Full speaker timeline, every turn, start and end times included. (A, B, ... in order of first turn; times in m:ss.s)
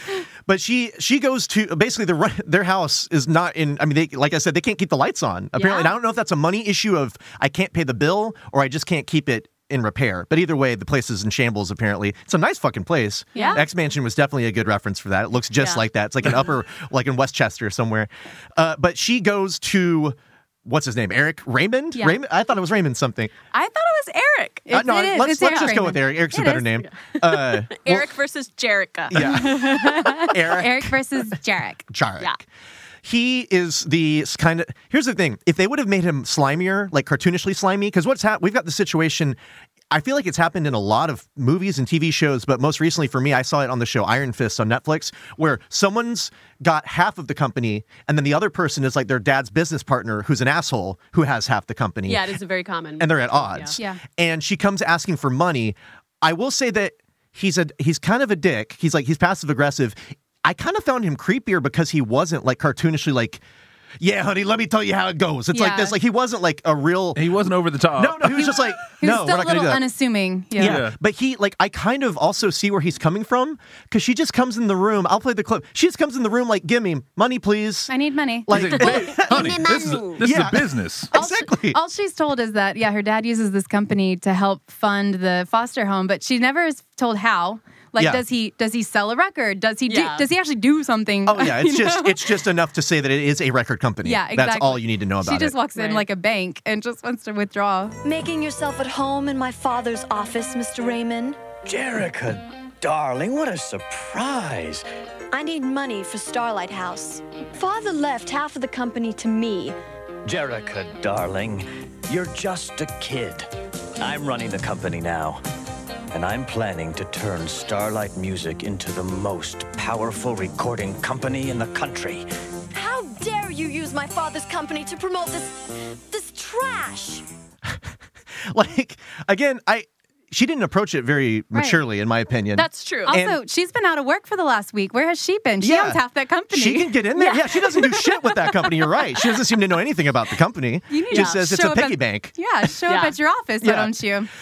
0:00.5-0:23.3 A
0:05.6-0:05.9 B
0:13.4-0:13.6 B
0:13.4-0:13.6 C
0:15.6-0:15.8 B
0:23.5-0:24.7 B
0:24.7-0:26.6 C
0:24.7-0:28.1 A
0:25.4-0:25.7 B
0:26.8-0:29.8 B
0:29.1-0:31.3 A
0:29.2-0:31.8 C
0:31.9-0:32.4 A
0:33.0-0:39.4 A
0:39.9-0:52.3 A
0:52.1-0:53.8 B
0:53.0-1:03.4 A
1:04.0-1:07.4 A
1:05.5-1:06.0 C
1:07.2-1:08.6 D
1:07.9-1:09.9 A
1:08.8-1:10.8 C
1:10.6-1:17.9 A
1:10.6-1:11.0 D
1:17.9-1:18.5 C
1:18.5-1:21.8 A
1:18.5-1:21.1 D
1:18.9-1:20.0 B
1:21.1-1:32.4 C
1:28.0-1:28.2 A
1:29.9-1:30.3 B
1:31.3-1:35.6 A
1:34.0-1:38.0 C
1:35.8-1:36.1 B
1:38.0-1:41.5 E
1:41.6-1:44.8 F
1:45.3-1:49.8 E
1:50.2-1:55.4 F
1:56.1-2:02.3 F
2:02.7-2:07.2 E
2:08.4-2:13.4 A
2:11.5-2:11.8 C
2:12.6-2:13.2 B
2:13.1-2:18.0 C
2:15.6-2:22.4 A
2:20.9-2:24.3 C
2:22.9-2:23.2 B
2:23.6-2:24.0 A